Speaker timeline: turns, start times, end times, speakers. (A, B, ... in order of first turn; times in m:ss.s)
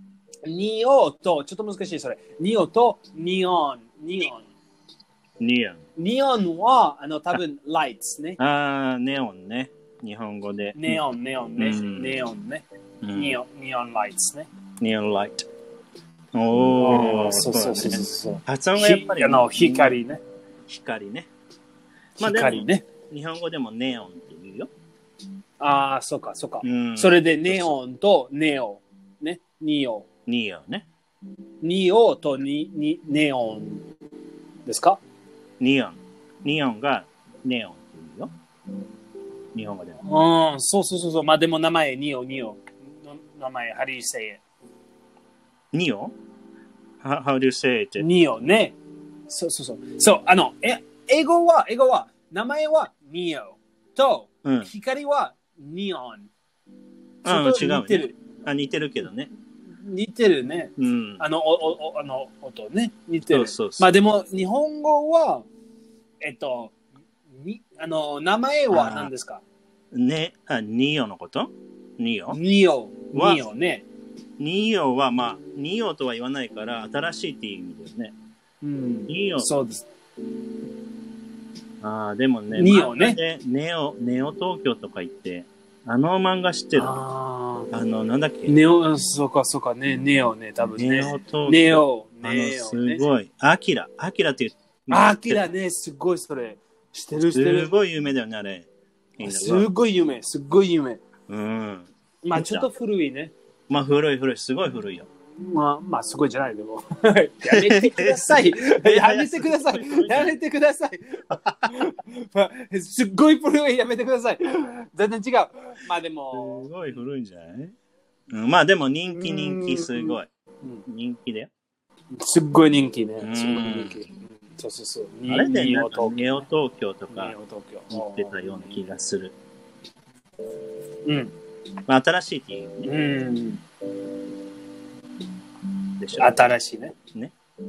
0:00.4-0:04.5 A
0:05.4-0:05.8 B
0:06.0-0:08.4 A
0:08.4-0:11.0 B
0:10.7-0:14.5 A
0:11.6-0:12.2 B
0:13.0-0:13.4 B
0:14.8-0:15.5 B
0:16.3-0:20.0 B
0:16.8-0:20.2 A
0:20.7-0:21.3 B
0:22.2-0:22.8 A
0:22.2-0:24.7 B
0:25.6-0:30.1 A
0:26.6-0:27.7 B
0:30.3-0:30.8 B
0:31.6-0:33.9 A
0:34.6-0:35.0 A
0:35.6-0:38.3 B
0:39.5-0:40.0 B
0:40.0-0:44.4 A
0:45.7-0:46.1 B
0:47.0-0:48.1 B
0:48.0-0:48.8 A
0:49.3-0:56.3 A
0:54.4-0:54.7 B
0:57.2-0:59.3 B
0:57.2-0:58.2 A
0:59.7-1:05.4 A
1:00.8-1:01.2 B
1:03.3-1:03.9 B
1:06.2-1:06.7 A
1:07.3-1:09.4 A
1:08.7-1:09.1 B
1:09.9-1:12.4 B
1:12.3-1:13.8 A
1:13.1-1:13.5 B
1:14.4-1:18.1 B
1:18.6-1:19.9 A
1:19.1-1:19.5 B
1:21.8-1:27.0 B
1:22.5-1:23.2 A
1:26.7-1:27.7 A
1:27.7-1:28.5 B
1:28.5-1:33.1 A
1:30.8-1:35.5 B
1:34.9-1:37.7 A
1:37.2-1:39.7 B
1:39.2-1:41.0 A
1:41.3-1:42.7 B
1:42.2-1:43.3 A
1:43.7-1:45.1 B
1:45.4-1:56.7 A
1:47.4-1:50.4 B
1:51.3-1:51.6 B
1:56.3-1:57.7 B
1:58.3-2:00.3 B
1:59.3-2:00.1 A
2:00.8-2:01.5 B
2:02.1-2:06.4 A
2:03.2-2:04.0 B
2:05.3-2:07.3 B
2:07.1-2:08.8 A
2:07.9-2:09.4 B
2:11.0-2:11.3 A
2:11.9-2:12.9 B
2:12.8-2:13.6 A
2:16.0-2:16.4 B
2:16.2-2:17.0 A